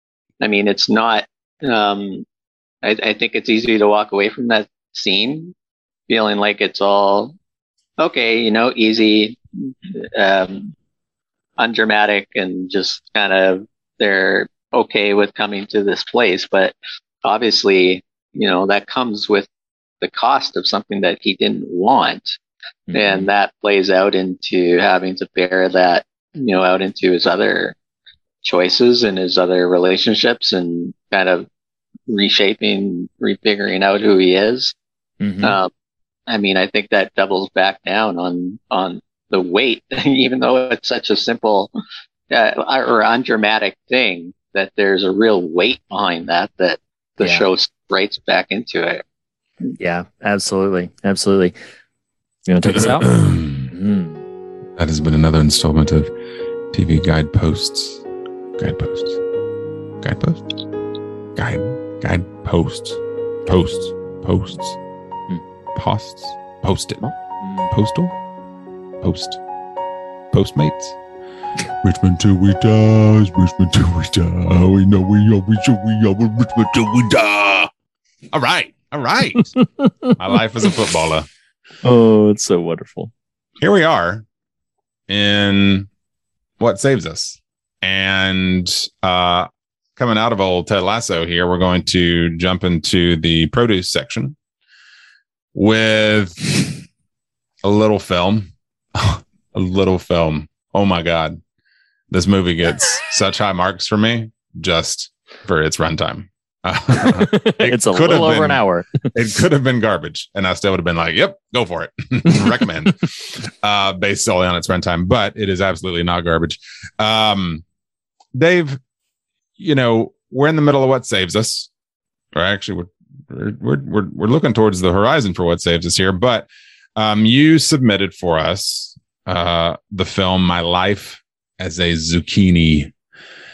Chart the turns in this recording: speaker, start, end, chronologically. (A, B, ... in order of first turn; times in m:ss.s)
0:00.4-0:02.2 A
0:02.8-0:05.5 A
0:06.1-0:07.3 A
0:08.0-0:10.7 A
0:11.6-0:19.5 A
0:20.0-0:22.4 A
0:22.9-0:23.3 B
0:22.9-0:27.7 A
0:28.4-0:31.5 A
0:32.1-0:34.7 A
0:35.2-0:35.6 B
0:35.4-0:35.7 A
0:36.3-0:41.7 A
0:42.3-0:49.0 A
0:49.8-0:51.5 B
0:52.5-0:53.1 B
0:52.6-0:53.7 C
0:53.7-0:54.2 B
0:54.8-0:56.1 C
0:56.7-0:58.0 C
0:58.6-0:59.2 C
1:00.0-1:00.5 C
1:01.4-1:04.8 C
1:05.7-1:07.0 C
1:07.0-1:07.7 B
1:07.7-1:08.1 C
1:09.0-1:09.4 C
1:10.3-1:11.0 C
1:11.8-1:17.7 C
1:18.3-1:19.5 C
1:19.6-1:20.1 B
1:20.2-1:21.3 C
1:21.8-1:23.1 B
1:23.6-1:24.2 C
1:25.1-1:25.9 C
1:26.6-1:34.3 C
1:35.5-1:36.8 C
1:37.6-1:41.4 C
1:42.1-1:57.6 C
1:47.0-1:49.0 B
1:58.3-1:58.8 C
1:59.6-2:01.7 C
2:02.3-2:12.9 C